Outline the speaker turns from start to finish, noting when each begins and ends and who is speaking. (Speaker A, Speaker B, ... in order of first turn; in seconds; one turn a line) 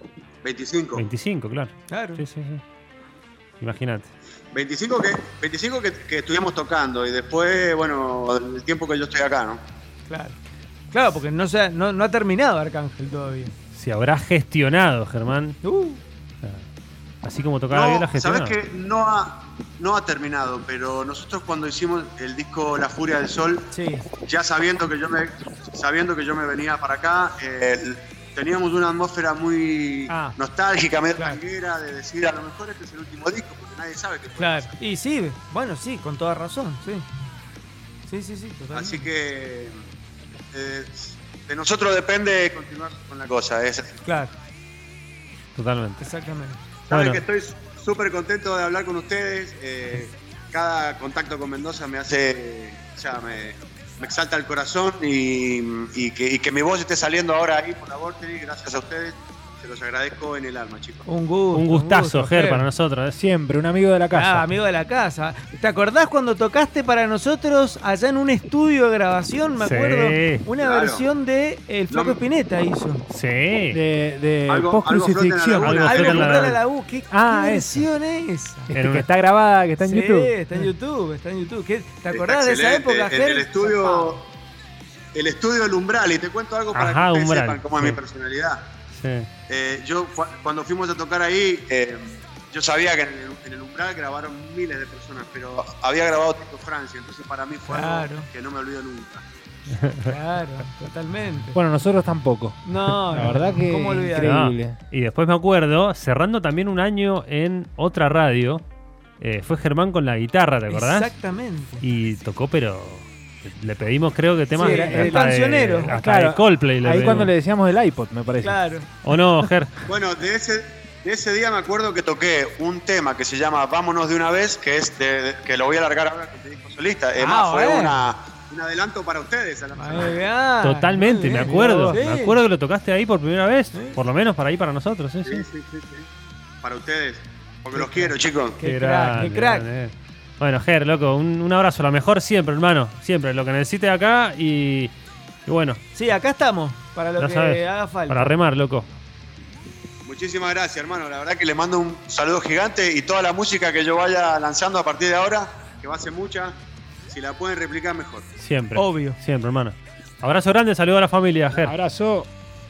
Speaker A: 0.4-1.1
Speaker B: 0.9-2.6
Speaker C: 1.9-2.2
Speaker B: 3.6-4.1
Speaker A: 4.5-9.6
Speaker C: 10.1-10.4
Speaker C: 10.9-13.5
Speaker B: 13.7-15.6
Speaker C: 15.6-16.0
Speaker B: 17.2-18.6
Speaker A: 17.7-23.7
Speaker C: 23.7-24.1
Speaker A: 24.2-34.7
Speaker C: 30.1-30.4
Speaker C: 34.4-37.0
Speaker C: 38.1-39.1
Speaker A: 38.7-39.8
Speaker A: 40.5-44.0
Speaker C: 44.0-44.3
Speaker B: 45.5-46.0
Speaker C: 46.0-46.6
Speaker A: 46.9-61.1
Speaker B: 46.9-47.2
Speaker C: 61.1-62.7
Speaker B: 61.5-63.2
Speaker D: 63.2-64.5
Speaker C: 64.1-73.0
Speaker B: 69.6-70.5
Speaker A: 70.6-71.1
Speaker A: 71.9-72.2
Speaker B: 73.1-73.8
Speaker D: 73.7-75.8
Speaker A: 74.5-76.5
Speaker B: 75.6-76.6
Speaker C: 75.8-78.7
Speaker D: 77.1-77.9
Speaker D: 78.7-80.7
Speaker B: 78.7-79.1
Speaker C: 79.8-84.2
Speaker A: 82.1-84.2
Speaker A: 85.1-88.6
Speaker B: 86.7-88.0
Speaker B: 88.9-89.3
Speaker A: 89.5-99.2
Speaker C: 97.7-98.3
Speaker C: 100.0-101.6
Speaker D: 101.5-104.8
Speaker C: 102.7-104.3
Speaker B: 104.2-108.7
Speaker B: 109.2-111.2
Speaker C: 110.7-111.8
Speaker B: 111.8-117.3
Speaker D: 114.5-115.3
Speaker C: 114.6-116.0
Speaker D: 115.8-118.6
Speaker C: 118.4-118.9
Speaker B: 119.0-119.8
Speaker A: 119.9-130.3
Speaker C: 127.2-128.0
Speaker C: 129.8-132.4
Speaker B: 130.6-135.4
Speaker D: 131.4-132.0
Speaker A: 135.2-136.1
Speaker A: 136.6-138.6
Speaker C: 137.7-139.7
Speaker B: 138.6-144.9
Speaker B: 145.5-145.8
Speaker C: 145.9-148.3
Speaker B: 147.2-148.9
Speaker A: 150.1-158.3
Speaker B: 158.4-161.7
Speaker C: 158.8-159.2
Speaker D: 161.7-162.3